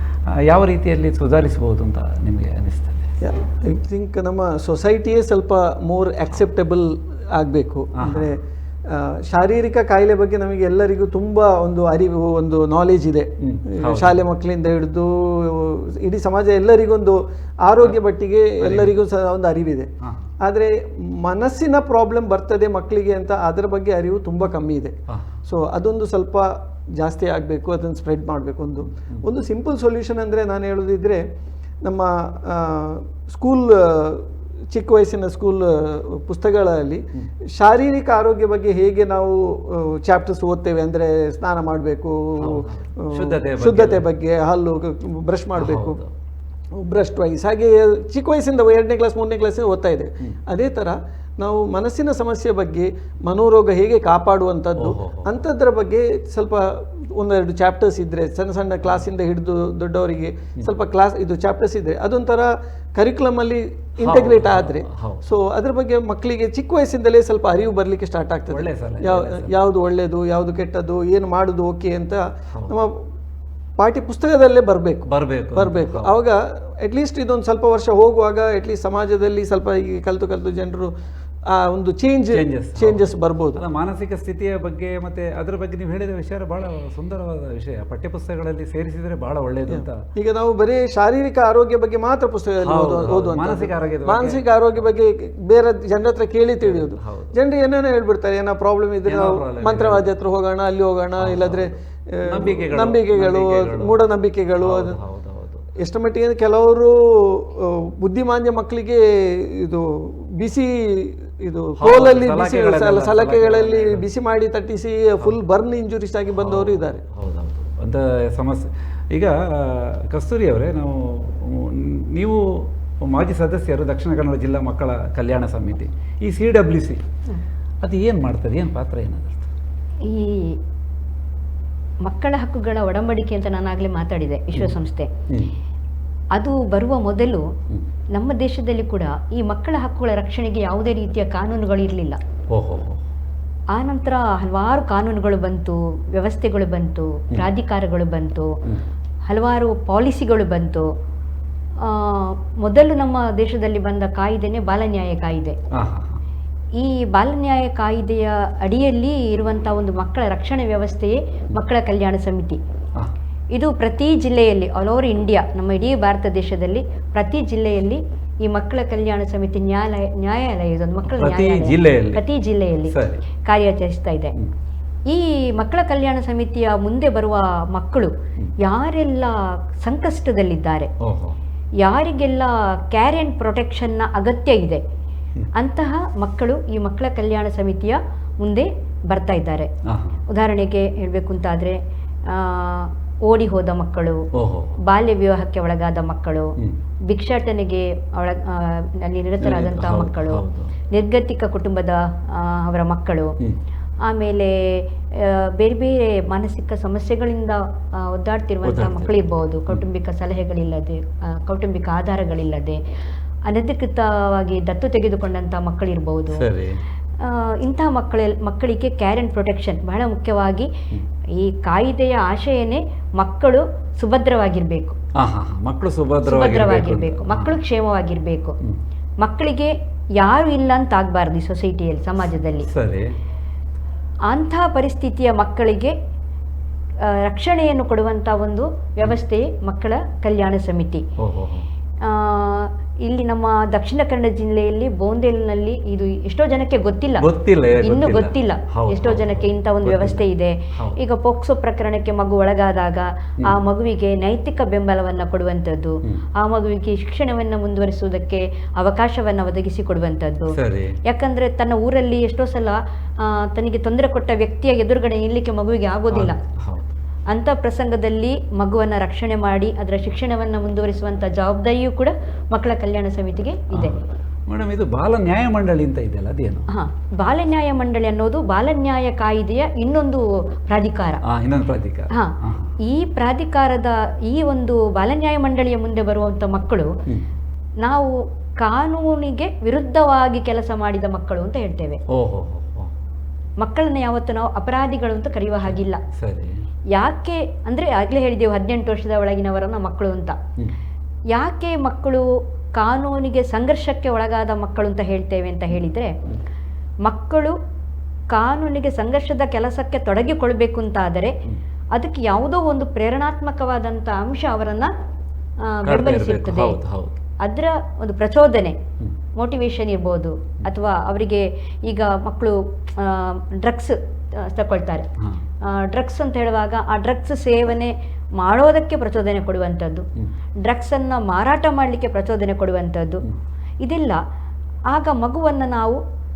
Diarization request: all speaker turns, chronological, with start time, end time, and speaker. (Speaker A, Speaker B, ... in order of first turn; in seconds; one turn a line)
Speaker A: 0.4-3.1
Speaker B: 3.2-19.9
Speaker A: 8.0-8.3
Speaker A: 13.4-14.2
Speaker A: 18.6-18.9
Speaker A: 20.0-20.3
Speaker B: 20.4-31.2
Speaker A: 25.1-25.4
Speaker A: 29.0-29.2
Speaker B: 31.8-46.0
Speaker A: 42.4-44.1
Speaker A: 45.6-46.1
Speaker B: 46.7-73.0
Speaker A: 54.8-55.4
Speaker A: 64.0-65.3
Speaker A: 68.5-69.6
Speaker B: 73.8-80.9
Speaker A: 75.1-76.2
Speaker B: 81.5-83.6
Speaker A: 82.3-83.0
Speaker A: 83.6-90.0
Speaker B: 89.7-105.0
Speaker A: 92.6-94.4
Speaker A: 96.6-97.4
Speaker A: 99.0-100.1
Speaker A: 101.2-101.7
Speaker A: 102.2-104.0
Speaker A: 104.6-105.7
Speaker B: 105.8-117.0
Speaker A: 111.8-114.0
Speaker A: 116.3-127.0
Speaker A: 127.8-129.5
Speaker C: 130.0-130.6
Speaker C: 132.0-135.1
Speaker A: 135.3-135.5
Speaker C: 136.3-137.5
Speaker C: 138.2-142.2
Speaker A: 142.5-143.0
Speaker C: 143.7-148.5
Speaker C: 149.3-150.9
Speaker C: 151.8-155.6
Speaker A: 155.7-156.2
Speaker C: 156.8-162.6
Speaker C: 163.5-172.9
Speaker A: 171.1-172.2
Speaker A: 172.9-173.3
Speaker C: 173.4-174.3
Speaker C: 175.1-180.9
Speaker A: 181.0-181.4
Speaker C: 181.8-184.8
Speaker C: 185.6-189.7
Speaker A: 189.9-190.2
Speaker C: 190.3-194.2
Speaker A: 194.3-194.7
Speaker C: 194.9-196.5
Speaker C: 197.1-203.3
Speaker A: 199.4-200.7
Speaker C: 204.1-212.8
Speaker A: 208.6-209.2
Speaker C: 213.5-216.4
Speaker A: 216.3-216.8
Speaker C: 217.2-220.7
Speaker C: 221.4-225.0
Speaker A: 225.2-227.6
Speaker C: 226.3-228.6
Speaker C: 229.2-232.7
Speaker A: 232.7-233.1
Speaker C: 234.3-235.9
Speaker C: 237.0-241.0
Speaker A: 241.2-241.7
Speaker C: 242.0-247.3
Speaker A: 247.2-250.2
Speaker C: 247.8-266.4
Speaker A: 260.5-261.0
Speaker A: 266.1-266.9
Speaker C: 267.3-274.0
Speaker A: 273.7-276.7
Speaker C: 276.7-281.2
Speaker A: 281.2-282.7
Speaker C: 282.9-286.9
Speaker C: 287.8-292.0
Speaker A: 292.1-292.9
Speaker C: 293.6-296.0
Speaker A: 296.1-296.6
Speaker C: 296.9-300.4
Speaker C: 301.4-306.1
Speaker C: 307.0-307.6
Speaker C: 308.3-311.4
Speaker C: 311.9-314.9
Speaker C: 315.6-316.8
Speaker A: 315.9-317.2
Speaker C: 317.4-318.8
Speaker C: 319.4-325.1
Speaker C: 325.6-330.1
Speaker C: 330.6-333.2
Speaker C: 333.8-334.2
Speaker C: 334.9-336.0